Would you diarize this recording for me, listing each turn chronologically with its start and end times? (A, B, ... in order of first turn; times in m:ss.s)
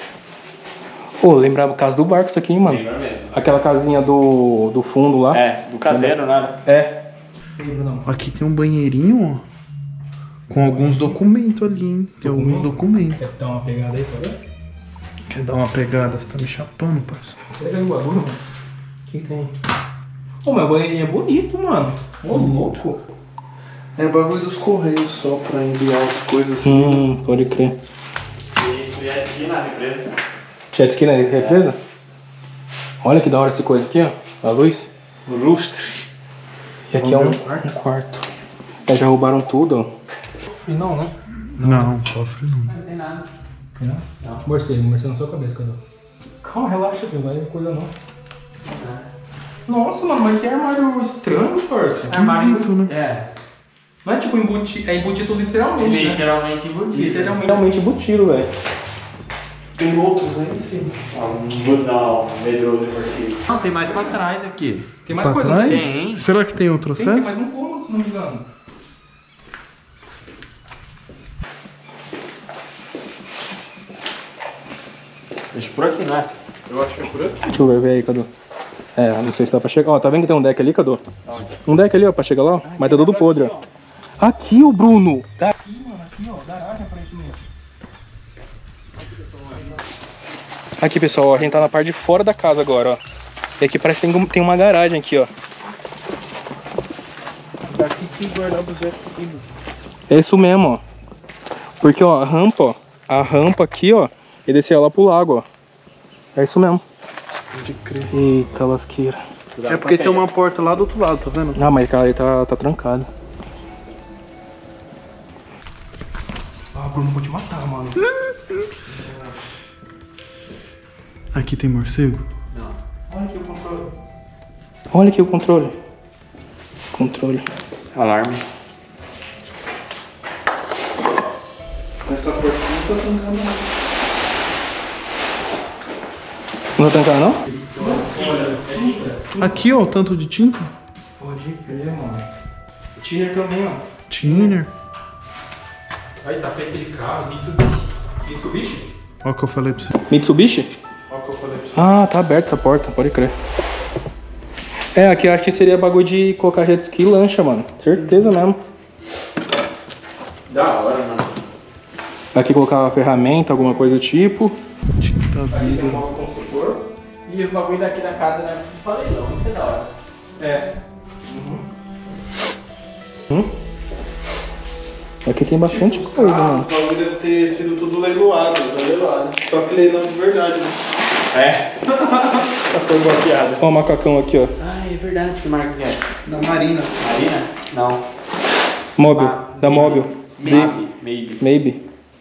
0:01.2-0:07.0 A
0:02.6-0:03.5 B
0:05.3-0:06.6 B
0:07.6-0:08.1 A
0:08.1-0:09.4 C
0:10.5-0:13.2 C
0:10.5-0:11.2 A
0:12.2-0:14.4 A
0:15.3-0:17.4 C
0:17.5-0:18.4 A
0:19.1-0:19.5 A
0:20.4-0:23.0 A
0:22.3-0:22.8 C
0:24.0-0:27.0 C
0:26.6-0:27.8 A
0:28.6-0:30.2 B
0:30.7-0:31.8 A
0:31.3-0:31.6 B
0:33.0-0:34.9 A
0:35.3-0:36.0 B
0:36.9-0:38.3 A
0:37.0-0:37.7 C
0:38.9-0:39.9 A
0:40.5-0:42.0 A
0:41.6-0:42.8 C
0:42.7-0:43.3 B
0:43.8-0:45.8 A
0:46.4-0:47.9 A
0:48.6-0:49.1 B
0:49.7-0:52.2 A
0:52.0-0:52.9 C
0:52.1-0:53.2 B
0:54.0-0:56.2 A
0:55.8-0:57.6 B
0:56.9-0:58.5 A
0:59.8-1:01.0 C
1:01.1-1:04.9 B
1:05.0-1:05.9 A
1:05.2-1:07.4 C
1:05.6-1:06.3 B
1:07.0-1:08.5 A
1:15.5-1:17.3 B
1:16.7-1:17.3 C
1:17.4-1:18.3 A
1:19.0-1:21.0 A
1:21.2-1:21.6 B
1:21.6-1:23.5 A
1:22.6-1:23.6 B
1:24.2-1:27.5 A
1:30.8-1:33.0 A
1:33.6-1:35.3 A
1:37.7-1:39.4 C
1:40.1-1:40.8 A
1:41.8-1:45.5 A
1:46.4-1:46.8 A
1:47.5-1:48.2 C
1:48.1-1:49.2 A
1:49.5-1:50.3 B
1:49.7-1:51.6 C
1:51.6-1:53.1 A
1:56.7-1:58.1 A
1:58.0-1:58.6 C
1:58.9-1:59.4 A
2:01.3-2:02.2 C
2:02.5-2:02.8 B
2:03.1-2:03.9 A
2:04.9-2:05.8 A
2:06.9-2:07.5 A
2:07.9-2:08.4 B
2:12.0-2:13.6 C
2:16.8-2:19.6 A
2:17.5-2:19.2 B
2:19.4-2:20.7 C
2:21.2-2:22.2 A
2:23.0-2:23.9 A
2:24.1-2:24.7 C
2:24.2-2:24.5 B
2:26.2-2:26.6 B
2:26.3-2:27.4 A
2:27.3-2:27.8 B
2:28.2-2:28.9 A
2:29.2-2:29.9 C
2:30.1-2:30.7 A
2:31.1-2:31.9 C
2:31.8-2:33.4 A
2:35.0-2:38.6 A
2:40.5-2:41.4 B
2:42.3-2:44.6 A
2:45.0-2:46.0 C
2:45.5-2:46.8 A
2:47.3-2:49.9 B
2:50.4-2:50.7 A
2:51.3-2:51.6 A
2:55.2-2:56.7 A
2:55.6-2:58.9 C
2:58.8-2:59.4 B
2:59.4-3:00.8 C
3:01.3-3:01.9 B
3:01.9-3:02.5 C
3:02.5-3:03.7 B
3:03.6-3:04.5 A
3:04.6-3:06.0 B
3:06.2-3:07.0 C
3:07.0-3:08.0 B
3:09.0-3:10.8 A
3:09.0-3:11.4 B
3:10.4-3:10.8 C
3:11.4-3:11.8 A